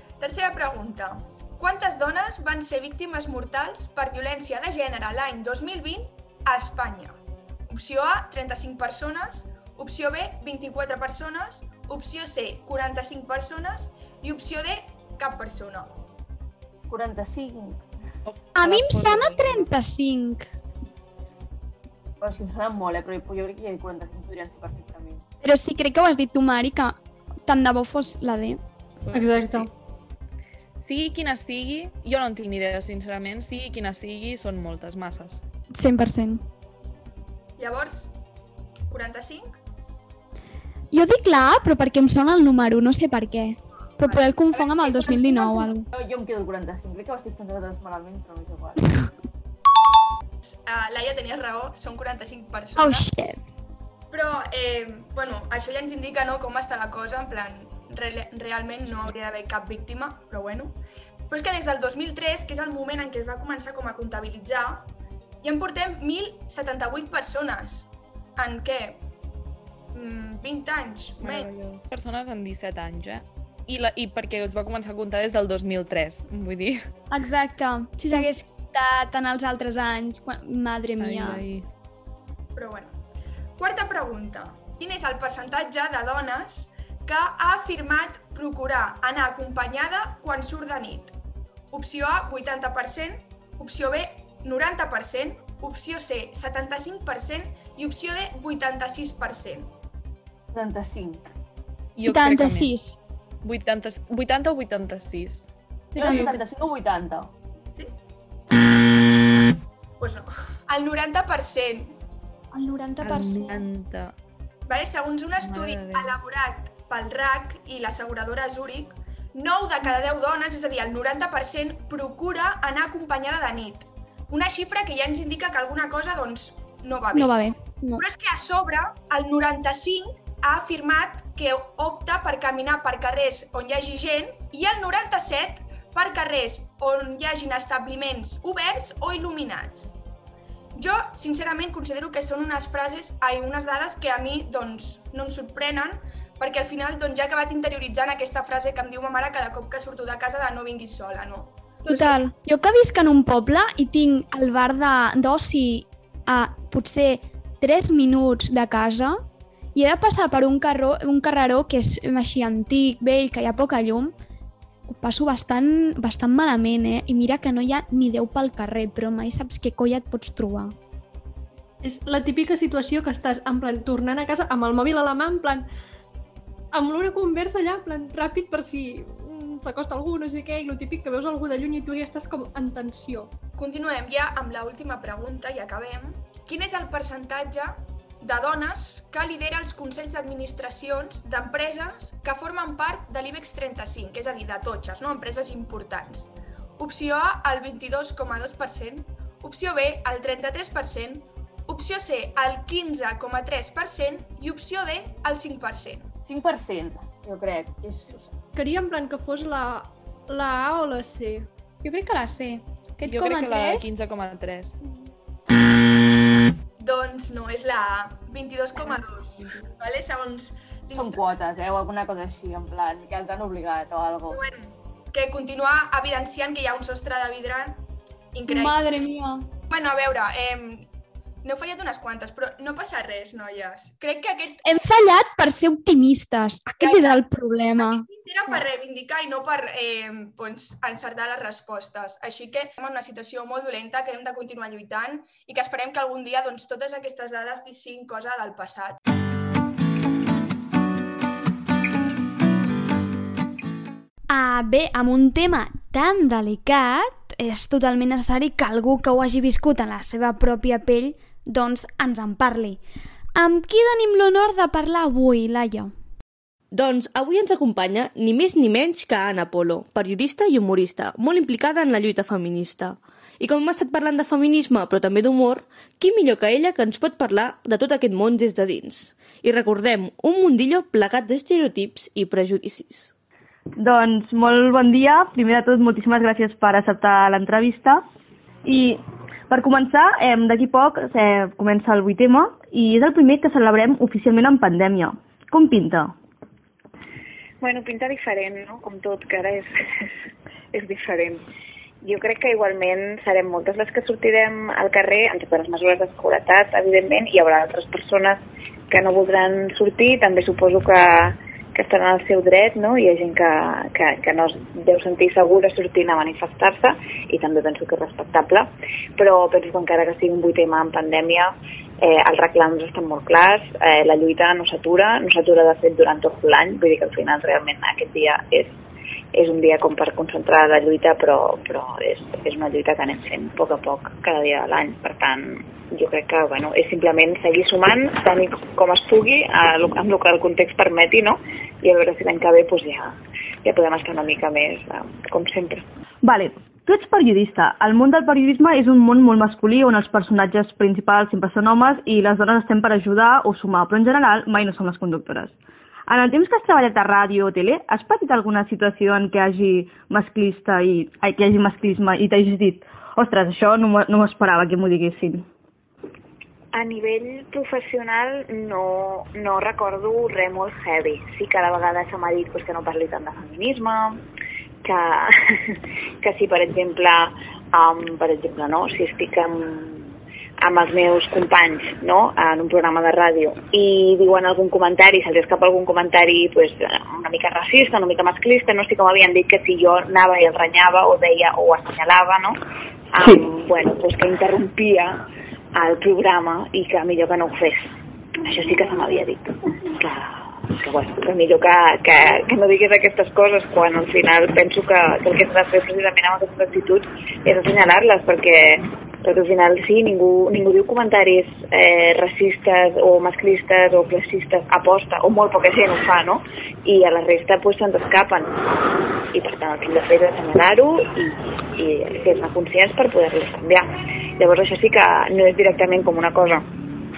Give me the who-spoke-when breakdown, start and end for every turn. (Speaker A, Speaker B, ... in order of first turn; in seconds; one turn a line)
Speaker A: 0.2-15.9
Speaker B: 16.9-17.8
Speaker C: 18.2-19.7
Speaker D: 18.6-20.4
Speaker B: 22.2-25.2
Speaker D: 25.4-28.6
Speaker E: 29.1-29.7
Speaker D: 29.4-29.6
Speaker C: 30.8-35.4
Speaker D: 35.7-36.4
Speaker A: 37.6-38.1
Speaker A: 38.9-39.5
Speaker D: 40.9-45.9
Speaker A: 44.0-45.7
Speaker B: 45.9-48.8
Speaker A: 50.4-53.0
Speaker D: 52.8-53.4
Speaker A: 54.1-60.8
Speaker A: 61.3-64.9
Speaker A: 65.4-69.0
Speaker A: 69.9-71.5
Speaker C: 71.2-76.8
Speaker D: 77.1-81.4
Speaker C: 81.0-81.7
Speaker A: 82.5-83.0
Speaker A: 83.6-91.1
Speaker A: 91.7-99.7
Speaker B: 100.5-101.3
Speaker C: 102.0-102.7
Speaker D: 102.0-103.0
Speaker C: 103.4-105.5
Speaker B: 105.9-107.3
Speaker D: 106.0-106.3
Speaker A: 110.0-111.9
Speaker D: 112.5-113.7
Speaker C: 113.0-114.1
Speaker A: 114.7-127.4
Speaker C: 115.4-116.2
Speaker D: 127.1-128.0
Speaker A: 128.0-139.9
Speaker A: 140.7-152.2
Speaker D: 151.9-159.2
Speaker D: 159.7-164.1
Speaker D: 164.9-170.7
Speaker E: 171.8-175.7
Speaker E: 176.7-183.3
Speaker A: 183.6-206.1
Speaker B: 206.2-208.3
Speaker E: 208.5-211.5
Speaker D: 211.8-213.8
Speaker C: 213.0-214.8
Speaker A: 216.8-221.2
Speaker B: 220.9-224.4
Speaker A: 224.3-227.8
Speaker A: 228.3-228.9
Speaker D: 228.5-229.4
Speaker A: 229.7-230.9
Speaker A: 231.4-234.7
Speaker D: 234.6-238.6
Speaker A: 236.8-237.2
Speaker A: 237.8-249.0
Speaker D: 254.3-262.8
Speaker D: 263.3-265.9
Speaker F: 266.7-283.1
Speaker G: 283.8-288.0
Speaker G: 288.6-296.1
Speaker H: 297.6-300.1
Speaker H: 300.7-301.4
Speaker H: 302.0-328.8
Speaker H: 329.3-345.8
Speaker G: 346.2-355.5
Speaker G: 356.1-365.4
Speaker H: 366.7-374.2
Speaker H: 374.8-392.6
Speaker H: 393.1-397.9
Speaker H: 398.4-418.7
Speaker H: 419.3-426.6